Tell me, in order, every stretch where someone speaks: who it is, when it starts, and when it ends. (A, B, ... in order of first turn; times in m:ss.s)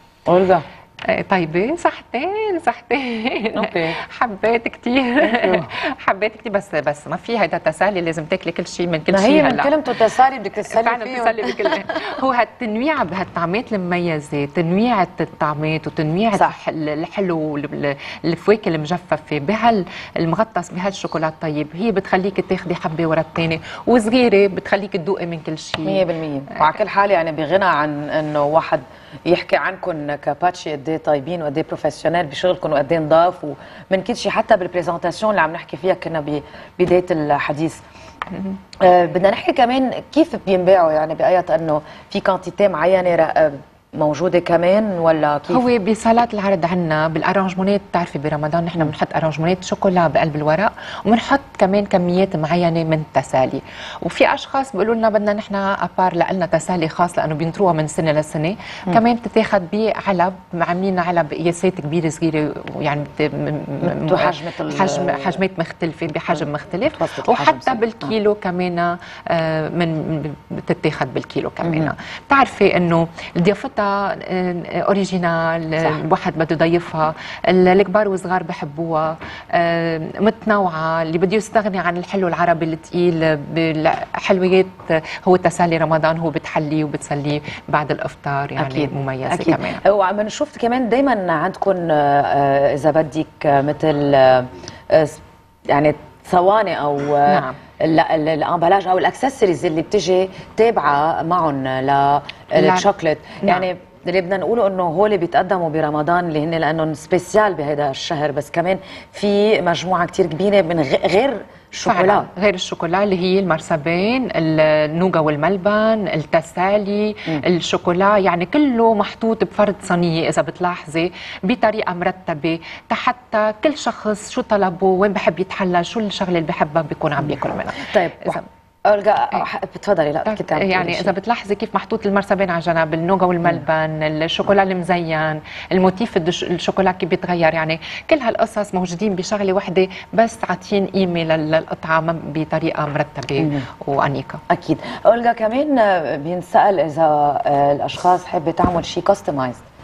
0:00.3-0:00.6 A
0:01.1-0:09.8 B
0:03.5-0:04.0 A
0:05.2-0:05.7 A
0:09.1-0:11.8 A
0:10.7-0:26.0 B
0:25.8-0:37.8 A
0:38.8-0:45.7 A
0:45.5-1:29.8 B
1:03.8-1:05.4 A
1:07.0-1:08.1 A
1:11.6-1:11.9 A
1:28.6-1:35.2 A
1:35.7-1:52.3 A
1:37.3-1:37.6 B
1:42.5-1:42.9 B
1:51.9-2:08.4 B
2:07.3-2:11.1 A
2:10.3-2:24.4 B
2:23.4-2:23.7 A
2:24.5-2:29.6 A